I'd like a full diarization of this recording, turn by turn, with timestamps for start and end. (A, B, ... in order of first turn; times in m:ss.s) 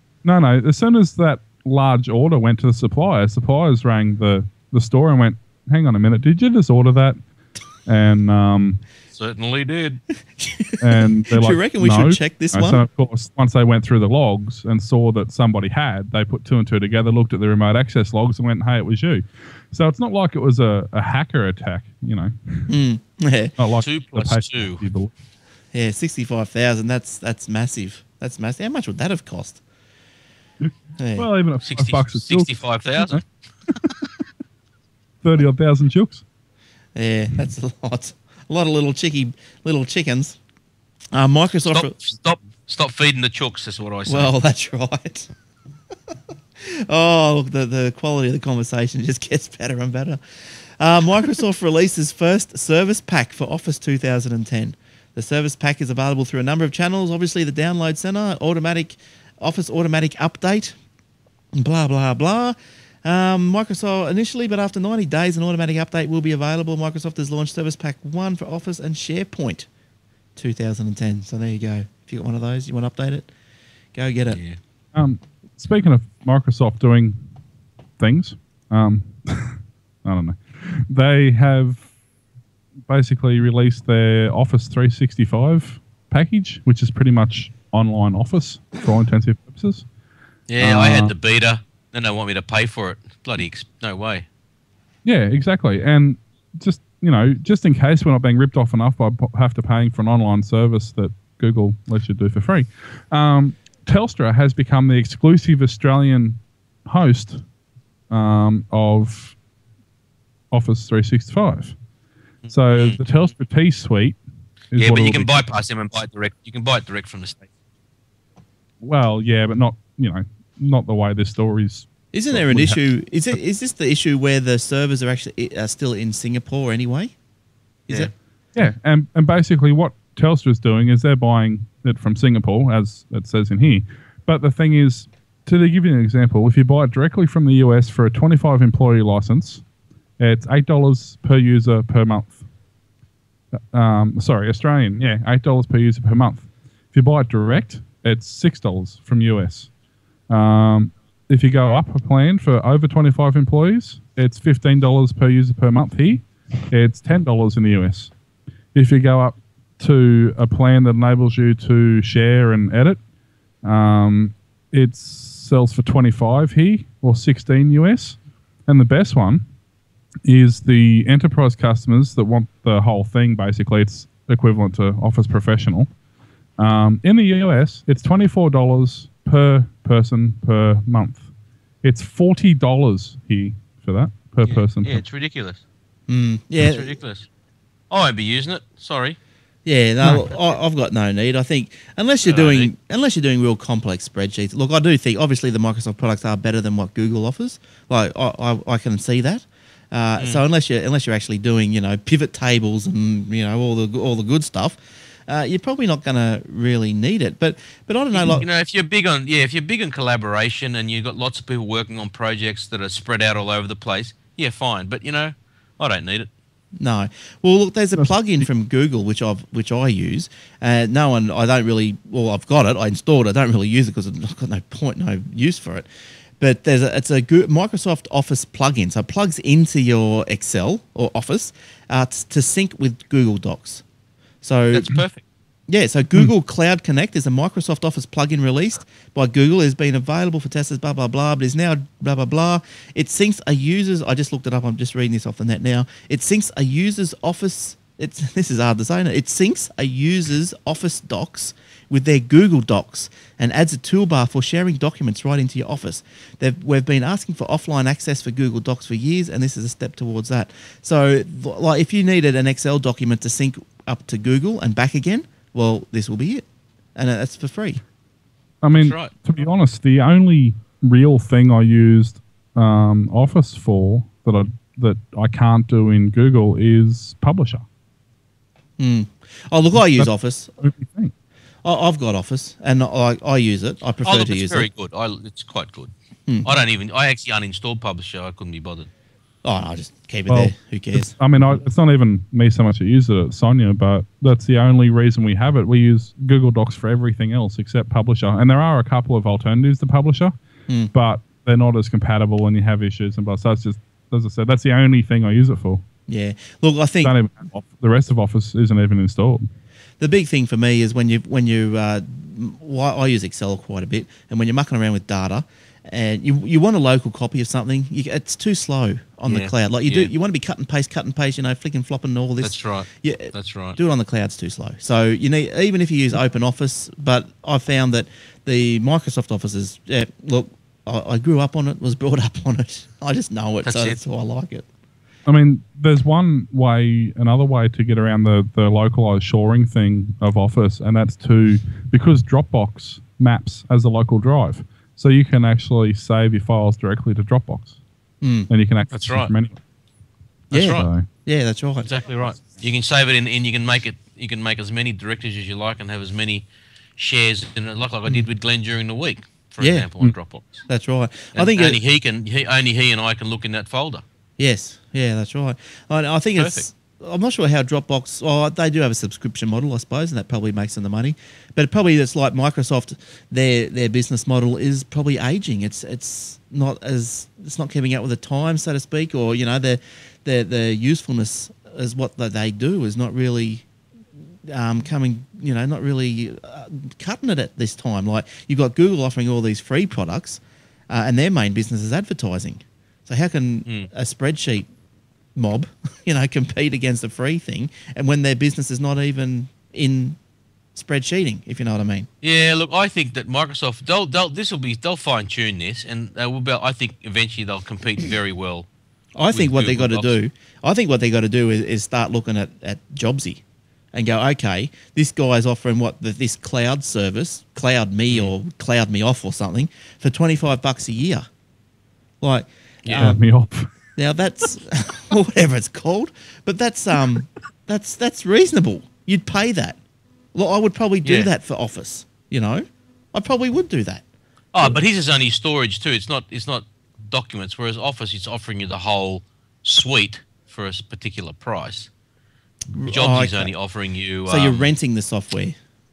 0:00.2-0:07.2 A
0:07.8-0:08.8 A
0:09.1-0:10.0 B
0:10.4-0:12.8 C
0:10.8-0:22.7 A
0:22.7-0:23.5 C
0:23.6-0:25.1 A
0:23.8-0:24.8 B
0:25.7-0:29.6 C
0:30.6-0:33.2 A
0:31.0-0:31.3 C
0:31.6-0:33.2 B
0:35.2-0:36.2 A
0:36.9-0:40.4 C
0:41.1-0:41.9 C
0:41.7-0:44.3 B
0:44.1-0:45.3 C
0:46.6-1:00.7 C
1:01.6-1:09.7 C
1:10.4-1:13.3 C
1:13.9-1:14.4 C
1:14.3-1:14.6 B
1:14.9-1:17.2 A
1:18.0-1:21.8 A
1:22.9-1:29.8 A
1:30.5-1:34.2 B
1:30.6-1:31.1 A
1:35.0-1:47.4 A
1:48.1-1:49.4 A
1:50.5-1:51.8 A
1:52.4-1:53.0 B
1:52.5-1:54.2 A
1:54.7-1:55.4 A
1:54.8-1:57.5 B
1:58.8-2:02.8 A
2:02.1-2:07.1 C
2:07.9-2:08.1 C
2:08.5-2:19.6 A
2:20.2-2:22.4 A
2:23.6-2:29.7 A
2:30.3-2:38.1 A
2:38.7-2:43.0 A
2:43.6-2:49.4 A
2:50.2-2:55.9 A
2:56.6-3:01.2 A
3:01.8-3:05.0 A
3:04.4-3:05.6 B
3:06.1-3:06.9 C
3:06.6-3:07.3 B
3:07.9-3:09.2 B
3:09.6-3:28.4 C
3:12.2-3:12.7 B
3:28.1-3:36.3 B
3:36.8-3:45.8 C
3:46.4-3:53.8 C
3:54.4-3:55.0 C
3:54.7-3:55.2 B
3:55.7-4:27.8 C
4:28.6-4:37.6 A
4:28.7-4:29.1 B
4:38.8-4:40.5 C
4:39.8-4:41.1 A
4:41.6-4:44.7 C
4:44.0-4:45.9 B
4:46.4-4:48.9 B
4:49.4-4:51.1 C
4:50.3-5:00.3 A
5:00.9-5:05.8 A
5:06.1-5:07.1 C
5:07.0-5:09.5 A
5:10.0-5:34.6 C
5:19.3-5:20.1 B
5:22.4-5:23.8 B
5:33.6-5:34.0 B
5:35.2-5:47.7 A
5:48.2-5:48.5 C
5:48.5-5:49.6 A
5:48.9-5:49.3 B
5:50.5-5:50.9 B
5:50.5-5:51.9 C
5:50.6-5:51.1 A
5:51.8-5:56.4 B
5:57.0-6:00.6 B
5:59.6-5:59.9 C
6:00.7-6:01.8 C
6:01.3-6:04.0 B
6:04.4-6:23.6 C
6:06.4-6:06.6 B
6:24.5-6:34.7 C
6:35.4-6:40.2 C
6:40.7-6:42.1 C
6:42.2-6:48.7 B
6:49.2-6:53.4 C
6:49.3-6:50.1 B
6:53.9-7:01.3 C
7:02.2-7:03.2 C
7:02.8-7:03.1 B
7:03.0-7:03.7 A
7:04.0-7:09.8 C
7:10.3-7:14.0 C
7:14.5-7:21.9 B
7:22.7-7:23.5 C
7:22.9-7:24.7 B
7:24.3-7:25.6 C